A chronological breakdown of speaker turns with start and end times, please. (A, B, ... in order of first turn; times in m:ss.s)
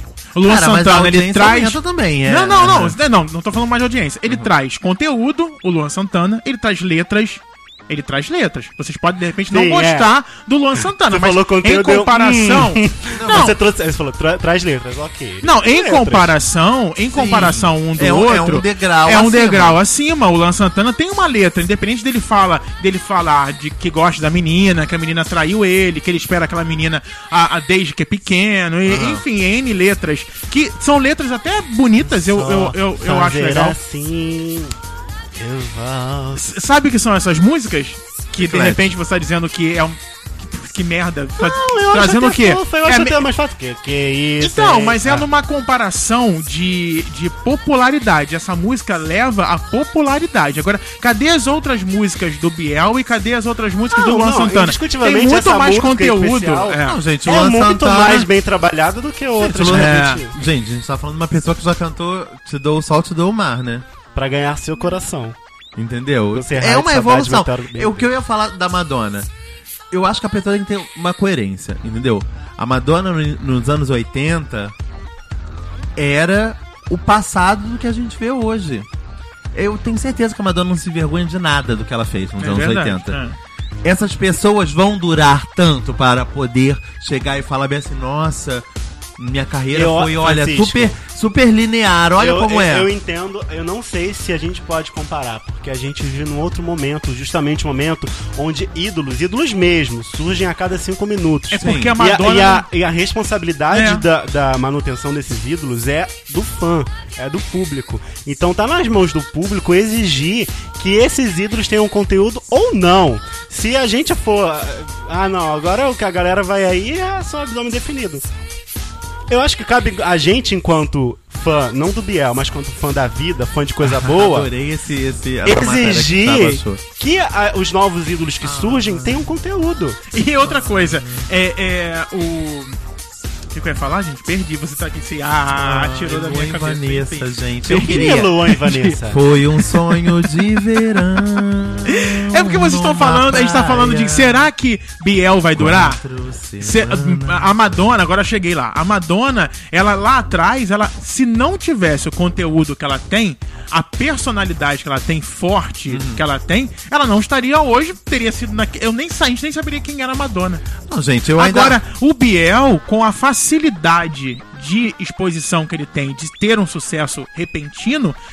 0:00.4-0:13.6 A
0:00.4-0:03.0 B
0:09.5-0:10.1 C
0:11.0-0:16.3 C
0:13.2-0:13.6 B
0:15.4-0:33.8 A
0:17.1-0:19.8 B
0:28.9-0:29.2 B
0:32.0-0:34.8 C
0:35.4-0:36.5 C
0:36.4-0:43.2 A
0:38.4-0:38.9 B
0:41.4-0:45.3 C
0:44.4-0:57.0 A
0:53.9-1:00.4 C
0:56.8-0:58.3 B
0:59.4-1:03.8 B
0:59.6-1:00.2 A
1:04.2-1:05.4 C
1:05.8-1:09.3 B
1:06.3-1:08.1 C
1:09.9-1:14.8 B
1:16.0-1:18.9 B
1:19.5-1:23.2 B
1:22.4-1:23.4 A
1:23.8-1:28.7 B
1:29.2-1:32.9 B
1:29.7-1:31.0 C
1:32.2-1:58.2 C
1:41.5-1:42.7 A
1:41.6-1:42.0 B
1:43.7-1:44.0 A
1:59.3-2:04.5 C
2:03.8-2:06.8 B
2:05.4-2:10.0 C
2:08.4-2:09.3 B
2:10.1-2:12.8 A
2:10.4-2:11.3 B
2:13.5-2:19.0 A
2:15.5-2:18.4 B
2:17.7-2:19.2 C
2:19.0-2:24.5 B
2:19.5-2:21.3 A
2:21.9-2:26.0 A
2:25.6-2:27.6 B
2:26.6-2:40.7 A
2:35.9-2:36.2 B
2:40.9-2:41.8 B
2:41.4-2:48.2 A